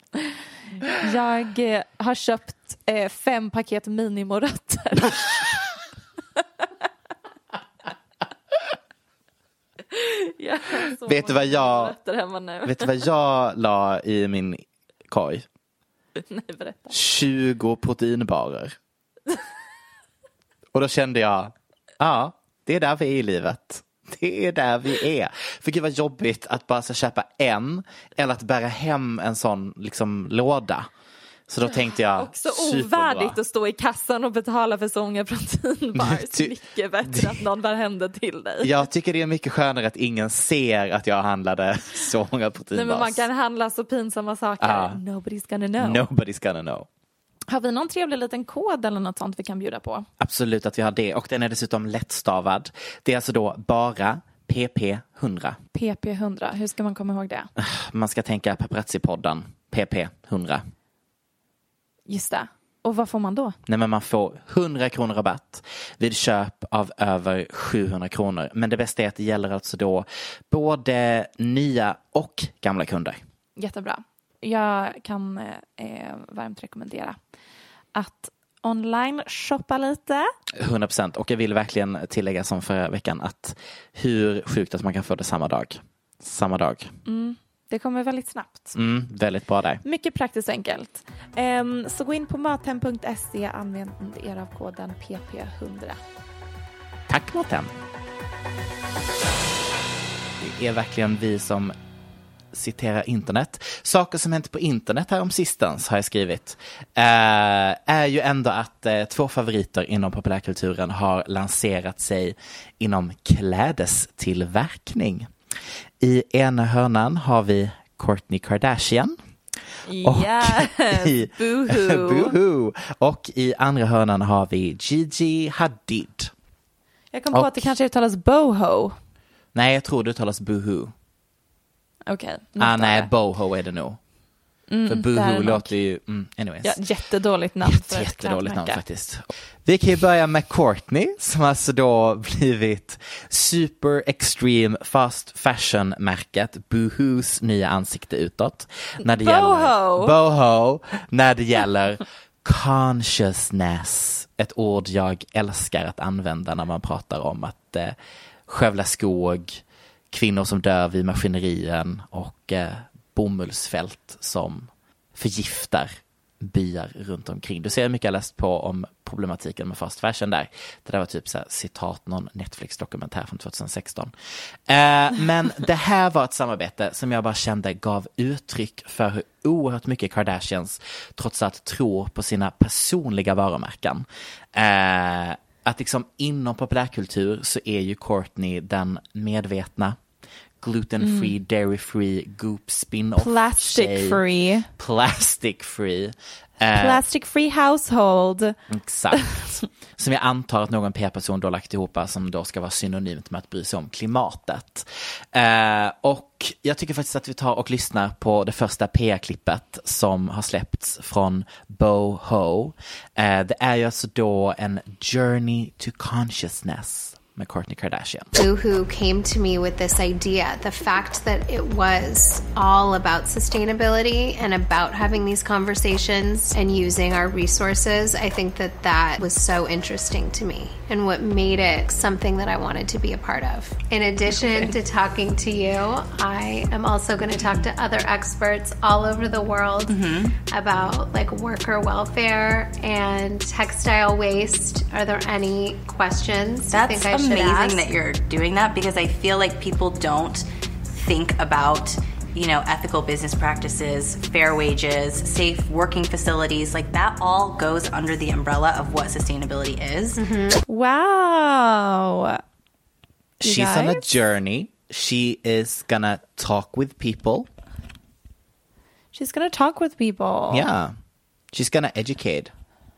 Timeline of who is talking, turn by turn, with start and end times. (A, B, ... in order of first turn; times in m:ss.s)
0:01.0-0:05.3 A
0:09.9-0:12.9 A
0:11.0-0:11.9 B
0:12.6-0:15.4 B
0:16.3-0:16.9 A
0:16.9-0:18.8 B
0:20.7-0:30.9 B
0:31.5-0:33.4 B
0:32.2-0:38.7 A
0:36.0-0:36.5 B
0:37.0-0:37.4 B
0:38.6-0:43.2 B
0:42.7-0:46.1 A
0:44.6-0:45.0 B
0:45.8-0:46.9 B
0:47.5-0:50.0 A
0:50.2-0:55.6 B
0:55.7-0:57.5 A
0:57.6-1:00.6 B
1:02.1-1:03.6 A
1:03.7-1:13.2 B
1:13.6-1:17.2 A
1:17.9-1:20.3 A
1:20.6-1:26.9 B
1:27.0-1:28.7 A
1:28.7-1:29.8 B
1:29.8-1:36.0 A
1:37.1-1:37.8 B
1:40.4-1:41.7 B
1:42.5-1:55.3 B
1:56.0-1:59.2 B
1:59.9-2:02.4 A
2:00.0-2:06.3 B
2:07.1-2:09.0 A
2:07.3-2:07.7 B
2:09.5-2:10.9 B
2:12.1-2:13.1 A
2:12.6-2:14.0 B
2:14.7-2:15.7 A
2:14.9-2:16.8 B
2:16.6-2:18.8 A
2:17.6-2:37.9 B
2:29.0-2:30.1 A
2:38.5-2:54.1 B
2:54.7-3:10.0 B
3:10.6-3:14.2 B
3:11.0-3:11.3 A
3:13.2-3:14.7 A
3:14.8-3:17.0 B
3:16.7-3:18.6 A
3:18.7-3:38.3 B
3:38.3-3:59.9 C
3:54.3-3:54.7 D
3:59.9-4:00.3 D
4:00.5-4:07.9 C
4:06.7-4:10.4 D
4:11.0-4:20.2 D
4:20.2-4:20.6 C
4:20.7-4:22.4 A
4:23.4-4:27.5 B
4:23.4-4:24.2 A
4:29.1-4:30.7 A
4:30.5-4:31.0 B
4:31.5-4:32.5 B